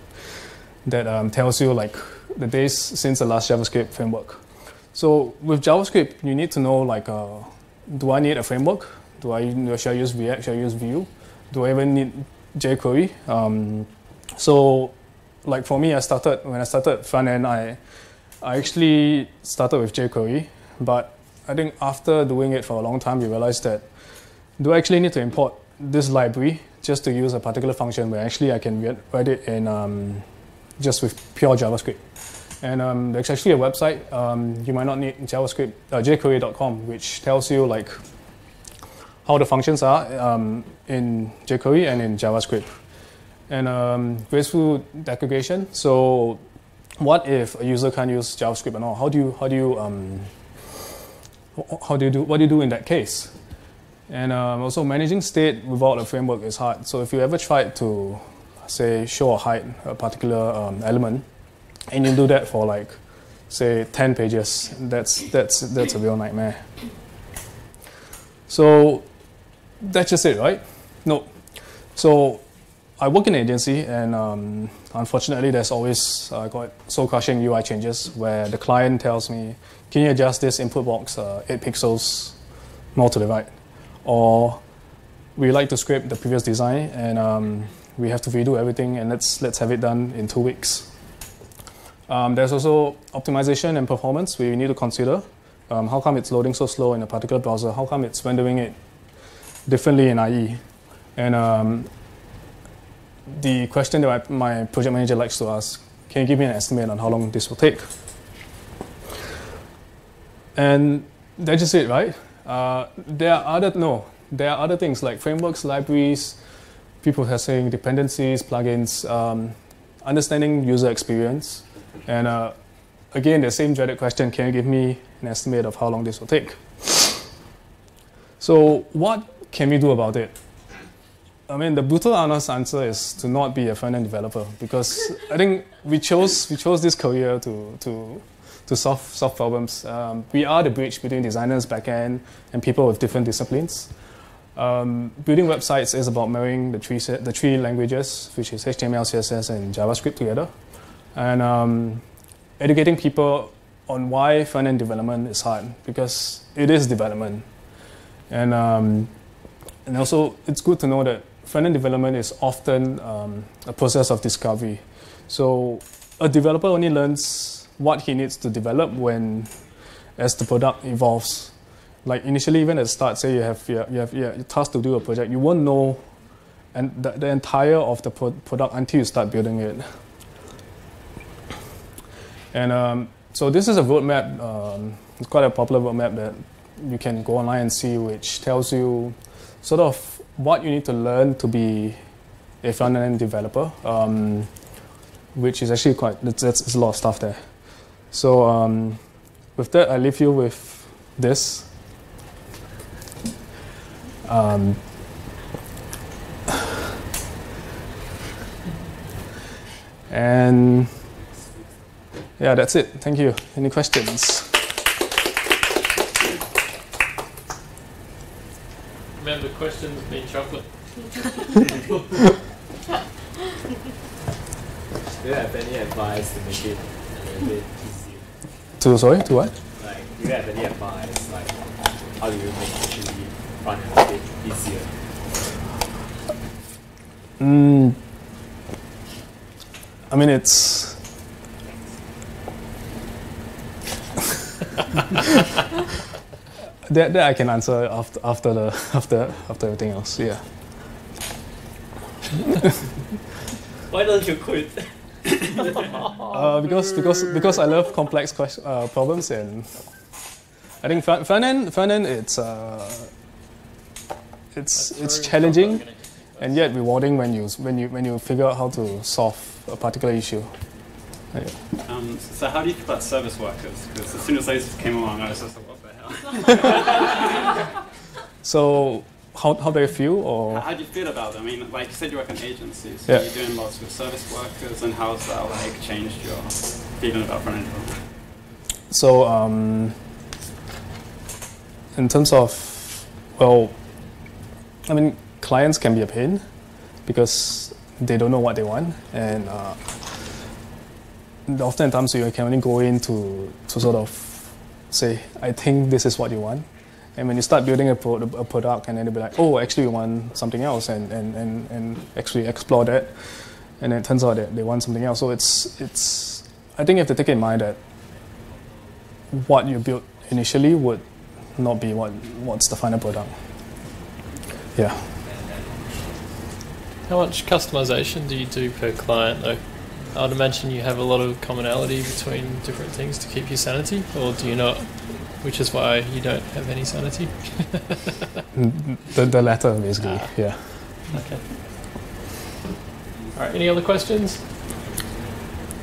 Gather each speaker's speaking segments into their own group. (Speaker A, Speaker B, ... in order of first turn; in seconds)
Speaker A: 0.8-14.9, 15.4-17.8, 18.4-23.8, 24.6-30.2, 30.8-32.0, 32.6-38.0, 39.2-42.7, 43.5-46.4, 47.0-50.3, 51.5-53.3, 54.1-61.2, 61.9-63.0, 63.5-66.7, 68.5-69.0, 69.8-71.3, 71.9-72.4, 73.0-82.3, 82.9-83.5, 84.0-84.6, 85.3-90.9, 92.1-98.8, 99.7-100.6, 101.2-101.9, 103.3-107.8, 110.5-116.4, 117.0-122.5, 123.1-127.3, 128.4-130.3, 131.5-143.9, 144.5-150.5, 151.1-152.0, 152.6-157.4, 158.3-159.1, 159.8-169.5, 170.2-176.0, 176.7-179.8, 182.5-192.0, 192.6-194.5, 195.3-199.0, 199.5-201.7, 204.2-204.9, 210.1-211.0, 212.4-214.6, 228.8-229.5, 237.4-238.0, 240.1-241.0, 246.8-250.4, 256.3-259.9, 260.8-263.1, 264.5-265.9, 266.4-270.5, 271.3-271.6, 278.4-280.7, 288.9-290.0, 291.9-293.8, 294.9-296.4, 297.1-300.0, 301.5-313.1, 313.8-317.8, 319.3-321.0, 321.5-323.4, 324.7-325.1, 338.5-340.9
Speaker B: 219.2-220.7, 264.7-266.7, 327.1-338.2, 340.0-340.5, 341.1-341.4, 343.3-344.5
Speaker C: 225.2-228.3, 229.8-235.0
Speaker D: 271.8-277.5, 280.5-288.0